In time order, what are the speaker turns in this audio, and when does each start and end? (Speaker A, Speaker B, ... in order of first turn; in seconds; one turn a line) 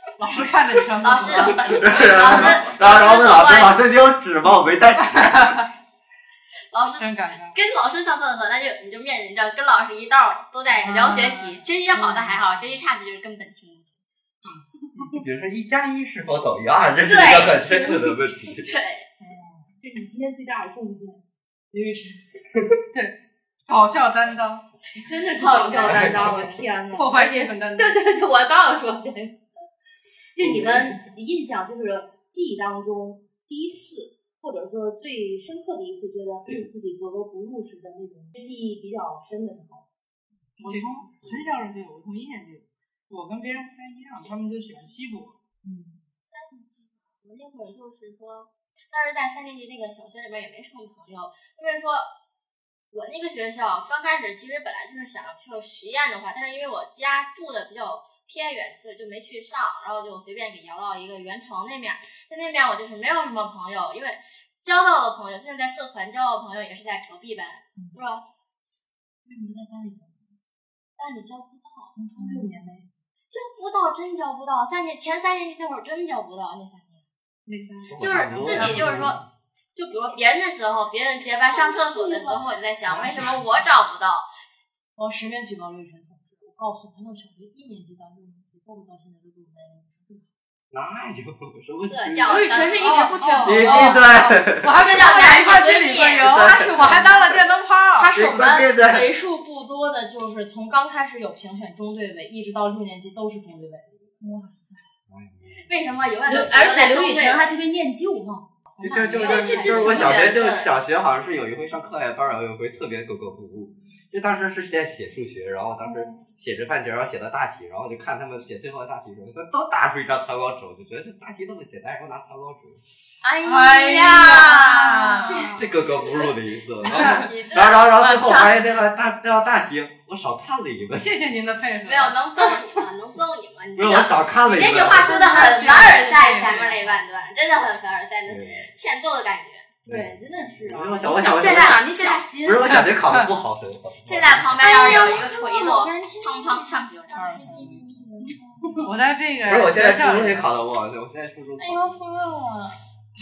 Speaker A: 0.2-2.6
Speaker B: 1.0-3.8
Speaker C: 1.6-5.5
Speaker B: 6.7-13.9
Speaker A: 7.0-7.5
Speaker A: 10.9-11.6
Speaker D: 10.9-11.2
Speaker E: 11.9-12.7
Speaker A: 14.4-15.2
Speaker C: 15.1-18.7
Speaker B: 17.1-18.0
Speaker B: 18.6-19.1
Speaker E: 19.2-19.7
Speaker D: 19.8-21.2
Speaker E: 21.7-22.2
Speaker A: 23.7-24.6
Speaker D: 24.9-29.4
Speaker B: 25.3-26.1
Speaker C: 25.7-26.6
Speaker A: 26.3-28.0
Speaker D: 30.4-39.9
Speaker C: 30.4-31.0
Speaker A: 40.6-45.4
Speaker D: 45.6-46.0
Speaker B: 46.2-52.1
Speaker B: 52.9-68.2
Speaker E: 69.3-70.3
Speaker B: 71.0-71.9
Speaker E: 72.0-72.9
Speaker D: 72.2-72.6
Speaker B: 73.3-77.0
Speaker A: 77.5-78.9
Speaker C: 77.9-79.2
Speaker B: 78.0-79.2
Speaker B: 79.8-84.3
Speaker E: 81.5-82.4
Speaker C: 82.9-83.4
Speaker E: 85.0-90.3
Speaker C: 90.7-92.8
Speaker B: 91.9-92.9
Speaker E: 92.3-94.1
Speaker D: 92.3-93.9
Speaker A: 92.8-98.1
Speaker C: 93.4-94.9
Speaker B: 94.8-96.4
Speaker C: 96.2-97.3
Speaker E: 96.4-97.4
Speaker E: 97.9-104.1
Speaker C: 98.1-99.1
Speaker D: 104.2-104.9
Speaker C: 105.1-105.7
Speaker B: 105.7-107.5
Speaker D: 106.3-108.5
Speaker E: 108.7-110.5
Speaker C: 108.8-122.8
Speaker B: 109.2-110.7
Speaker E: 123.2-125.5
Speaker A: 123.4-125.6
Speaker B: 124.1-124.7
Speaker C: 125.5-131.1
Speaker B: 127.1-127.9
Speaker E: 128.0-128.7
Speaker A: 131.0-132.8
Speaker B: 131.8-139.7
Speaker C: 133.8-135.6
Speaker A: 135.0-137.0
Speaker E: 135.2-136.6
Speaker C: 138.2-138.7
Speaker C: 139.9-141.9
Speaker D: 139.9-142.6
Speaker B: 141.1-142.4
Speaker C: 142.4-145.2
Speaker A: 142.7-143.3
Speaker B: 144.0-147.4
Speaker E: 144.6-148.9
Speaker D: 144.7-145.8
Speaker A: 147.1-147.5
Speaker A: 148.3-150.5
Speaker C: 149.5-152.0
Speaker E: 151.6-152.8